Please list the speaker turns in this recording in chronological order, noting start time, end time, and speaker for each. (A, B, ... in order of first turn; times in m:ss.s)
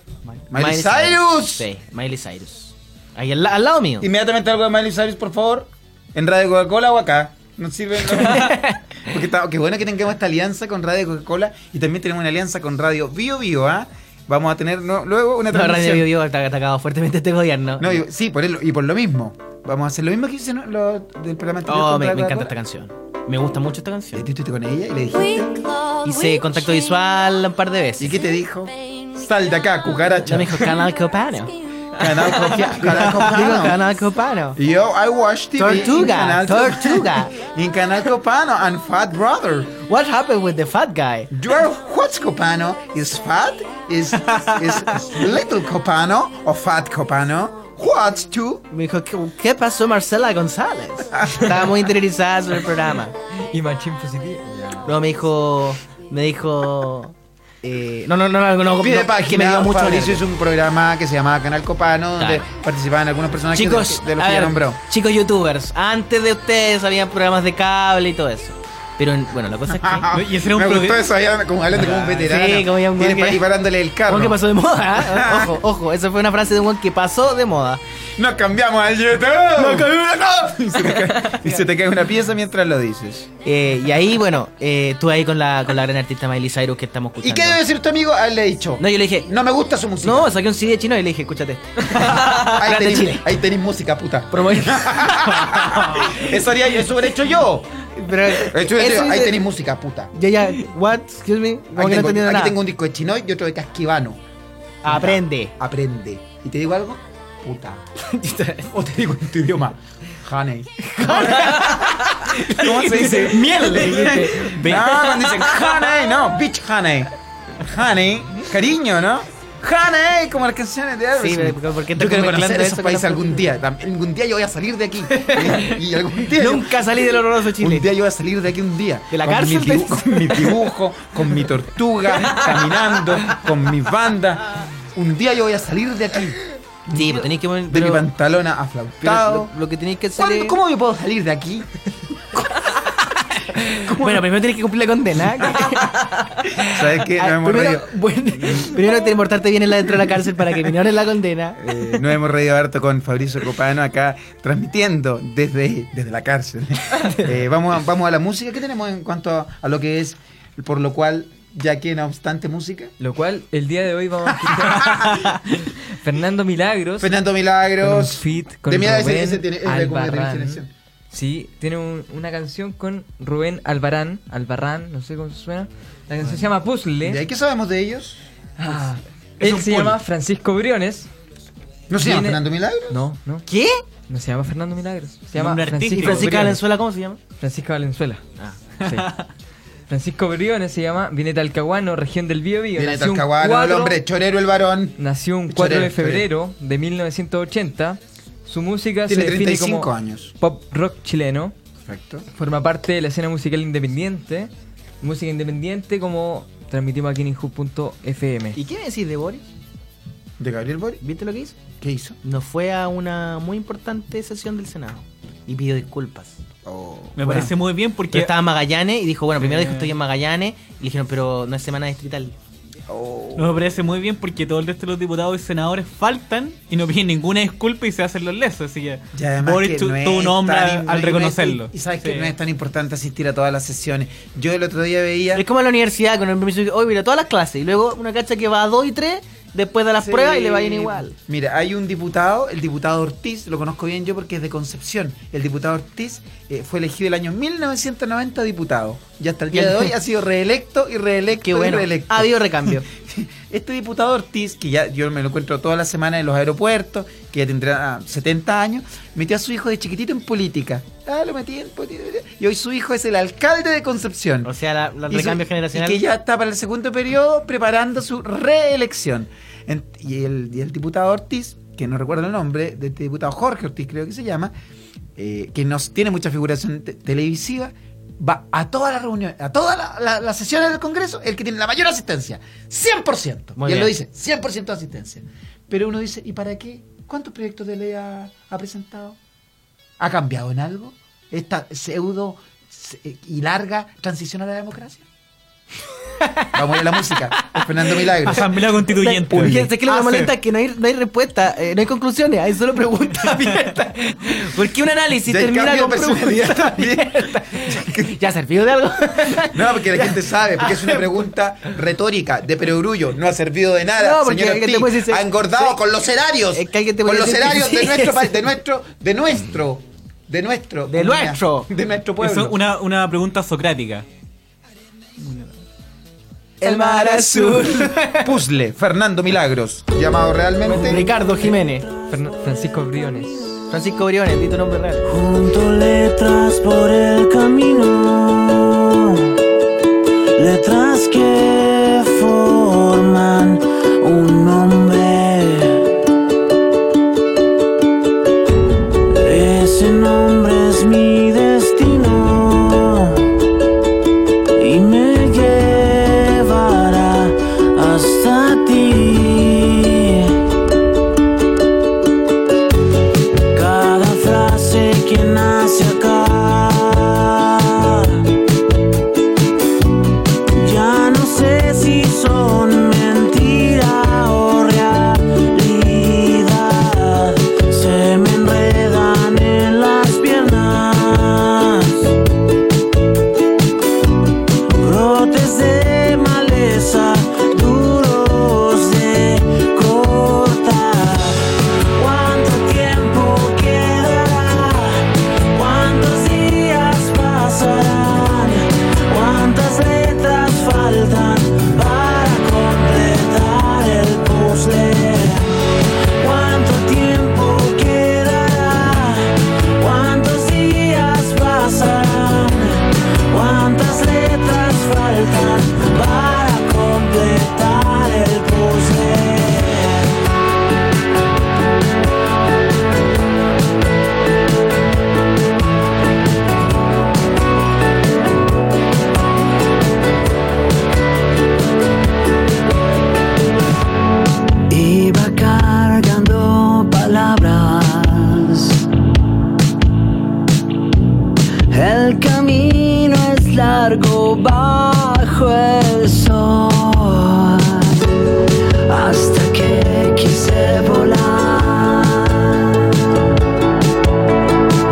0:00.5-0:01.7 A
0:00.5-0:04.1 B
0:04.0-0:16.1 A
0:08.1-0:08.8 B
0:15.5-0:18.0 B
0:17.8-0:22.5 A
0:21.6-0:24.3 B
0:24.1-0:25.7 A
0:26.0-0:28.2 B
0:28.0-0:30.8 A
0:30.2-0:31.5 B
0:31.9-0:33.8 A
0:32.4-0:34.6 B
0:34.5-0:39.8 A
0:35.6-0:37.4 B
0:39.8-0:41.3 B
0:41.3-0:48.6 A
0:48.7-0:53.1 B
0:51.2-0:51.5 A
0:53.4-0:54.6 C
0:54.8-1:00.2 B
0:58.8-1:04.8 A
1:02.2-1:02.5 B
1:03.5-1:10.1 B
1:09.7-1:14.4 A
1:10.1-1:11.1 D
1:11.8-1:13.4 B
1:14.1-1:17.8 B
1:14.9-1:15.5 A
1:18.2-1:23.3 A
1:19.6-1:20.1 B
1:23.4-1:27.6 B
1:27.2-1:30.3 A
1:28.8-1:29.3 B
1:30.0-1:33.3 B
1:31.9-1:37.7 A
1:34.3-1:36.5 B
1:38.0-1:39.4 B
1:38.3-1:40.1 A
1:40.1-1:42.6 B
1:41.7-1:44.2 A
1:44.8-1:45.5 B
1:44.8-1:47.8 A
1:48.0-1:48.7 B
1:48.7-2:06.9 A
1:50.8-1:54.7 B
1:53.0-1:55.1 D
2:01.2-2:03.5 B
2:05.1-2:07.9 B
2:07.6-2:19.5 A
2:09.1-2:10.6 B
2:16.9-2:18.1 B
2:19.0-2:20.6 B
2:20.2-2:21.7 A
2:22.6-2:32.0 B
2:23.8-2:24.3 A
2:25.6-2:25.8 A
2:26.6-2:28.8 A
2:31.6-2:42.9 A
2:43.0-2:47.1 C
2:44.6-2:45.2 A
2:47.0-2:50.7 A
2:47.8-2:57.2 C
2:57.0-2:58.3 A
2:58.6-3:01.1 C
2:59.4-3:00.0 D
2:59.5-2:59.8 A
3:01.9-3:03.0 A
3:02.0-3:03.4 C
3:03.5-3:03.8 B
3:04.1-3:06.6 C
3:05.3-3:06.6 D
3:05.9-3:07.2 B
3:07.4-3:08.2 C
3:08.8-3:09.3 D
3:08.8-3:09.1 C
3:09.9-3:14.0 C
3:12.7-3:16.3 A
3:15.0-3:21.5 C
3:19.1-3:20.3 A
3:21.8-3:22.2 A
3:22.3-3:28.6 C
3:28.5-3:29.5 B
3:30.4-3:31.0 A
3:31.0-3:31.6 B
3:31.8-3:32.2 A
3:32.2-3:36.4 B
3:36.6-3:37.5 A
3:37.2-3:38.3 D
3:38.1-3:42.3 B
3:39.4-3:39.9 D
3:42.9-3:43.6 A
3:43.4-3:52.3 D
3:49.1-3:55.4 A
3:55.3-4:01.1 B
4:00.0-4:24.5 A
4:09.5-4:09.9 B
4:11.4-4:12.8 B
4:24.4-4:26.0 B
4:25.1-4:34.5 A
4:35.2-4:49.2 A
4:43.6-4:43.9 B
4:50.0-4:55.0 A
4:56.2-5:11.3 B
4:56.5-4:58.5 A
4:58.2-5:00.3 D
4:59.3-4:59.7 A
5:05.2-5:08.1 A
5:09.4-5:22.6 A
5:14.0-5:15.8 B
5:16.5-5:18.5 B
5:20.9-5:21.7 B
5:22.2-5:24.0 D
5:25.2-5:25.5 D
5:26.6-5:28.4 B
5:26.6-5:31.2 A
5:30.6-5:31.9 B
5:32.1-5:33.6 C
5:33.7-5:35.1 B
5:35.1-5:38.9 E
5:40.4-5:45.8 E
5:49.1-5:53.2 E
5:54.6-6:00.3 E
6:03.5-6:08.2 E
6:10.6-6:22.1 E
6:24.8-6:45.6 E
6:46.2-7:00.2 E
7:14.7-7:18.8 E
7:21.7-7:28.0 E
7:28.9-7:32.8 E